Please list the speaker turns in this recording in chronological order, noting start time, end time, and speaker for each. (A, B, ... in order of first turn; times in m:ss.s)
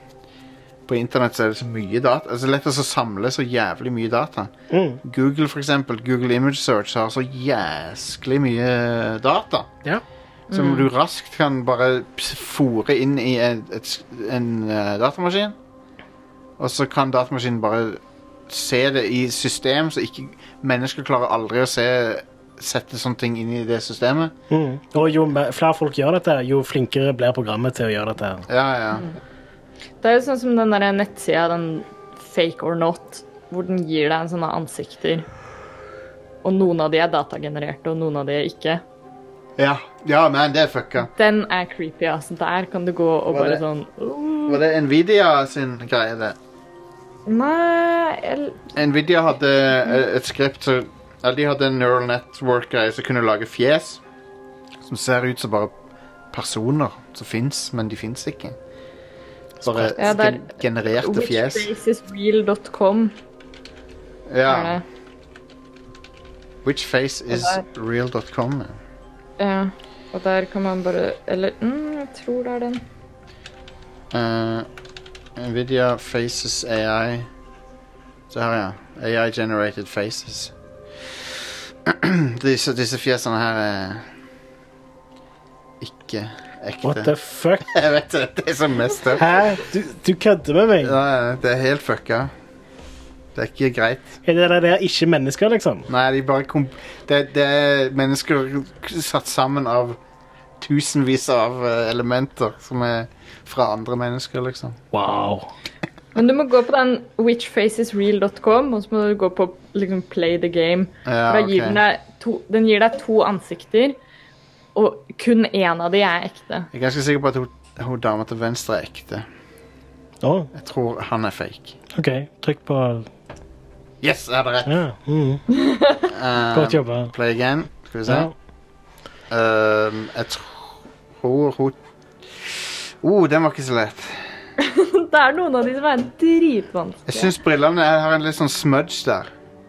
0:00.9-0:04.5 A
0:04.7-0:05.0 B
0:05.0-0:09.7 A
0:10.5-0:10.9 C
0:10.5-0:15.6 A
0:16.6-0:24.3 A
0:24.5-0:28.5 B
0:28.5-0:29.1 A
0:30.0-0:35.3 C
0:36.4-0:38.8 C
0:39.6-0:41.1 A
0:41.1-0:44.6 C
0:43.3-0:43.6 A
0:44.5-0:46.4 A
0:47.3-0:48.7 C
0:48.8-0:54.0 A
0:54.8-0:55.7 A
0:56.3-0:58.6 A
0:59.6-1:00.0 B
0:59.6-1:01.7 A
1:00.0-1:03.2 C
1:04.3-1:04.8 A
1:04.5-1:04.8 C
1:06.6-1:08.8 A
1:07.3-1:07.6 C
1:09.4-1:12.8 C
1:14.1-1:14.7 A
1:15.4-1:17.3 A
1:18.3-1:20.5 A
1:21.8-1:24.1 A
1:25.8-1:29.2 A
1:26.8-1:27.7 B
1:29.2-1:30.9 B
1:30.8-1:32.3 A
1:33.4-1:34.2 A
1:34.2-1:35.9 B
1:35.9-1:40.0 A
1:40.6-1:44.8 A
1:44.9-1:45.5 B
1:46.2-1:54.0 C
1:51.0-1:51.8 A
1:54.8-1:56.7 C
1:56.7-1:59.3 A
2:00.2-2:00.5 B
2:00.5-2:01.8 A
2:01.9-2:03.1 B
2:04.0-2:04.8 A
2:04.6-2:05.5 B
2:05.6-2:06.1 C
2:06.1-2:08.3 A
2:06.5-2:07.1 B
2:08.1-2:08.3 B
2:09.3-2:11.8 A
2:12.3-2:14.4 A
2:14.6-2:17.3 C
2:17.1-2:19.3 A